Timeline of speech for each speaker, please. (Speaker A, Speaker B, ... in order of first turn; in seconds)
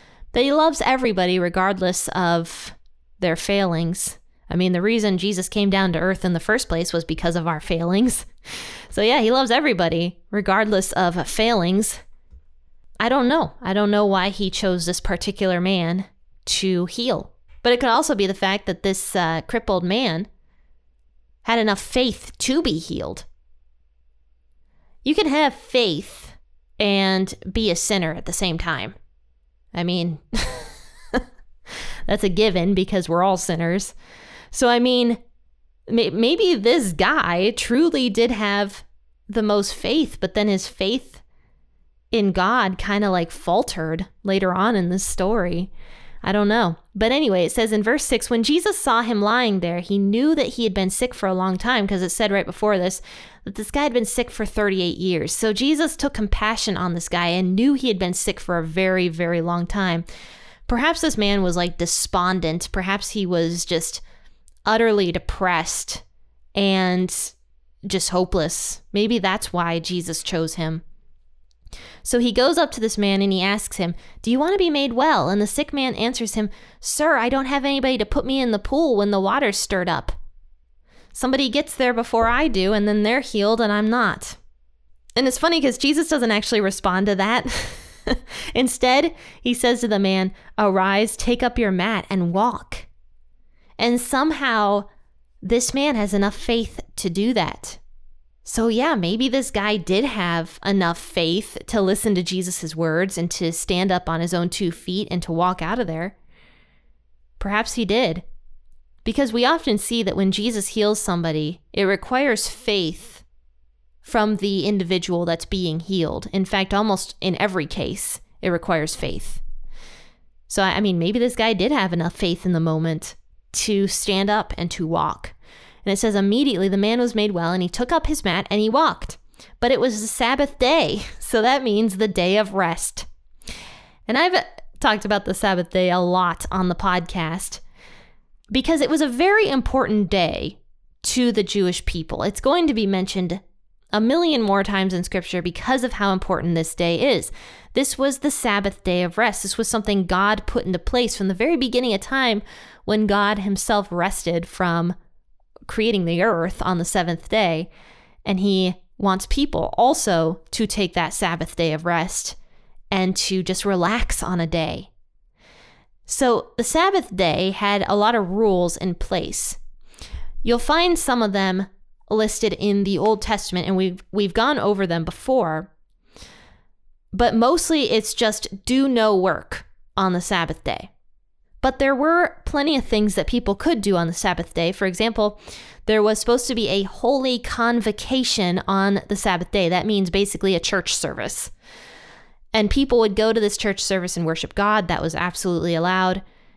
Speaker A: 0.3-8.3, 8.9-12.0, 13.0-20.3, 21.4-23.2, 25.0-28.9, 29.7-31.2, 32.1-33.9, 34.5-35.2, 35.9-41.2, 42.1-45.7, 46.2-60.0, 60.7-64.0, 64.7-66.0, 66.5-67.3, 67.8-70.8, 72.0-80.2, 81.1-84.4, 85.2-92.9, 93.8-94.9, 95.4-97.8, 98.4-106.2, 107.4-108.2, 109.0-113.2, 114.0-119.4, 120.5-133.1, 134.1-137.6, 138.5-154.9, 155.7-157.7, 158.2-162.4, 162.9-164.9, 166.1-169.6, 170.4-175.7, 177.1-180.9, 181.6-191.5, 192.5-196.2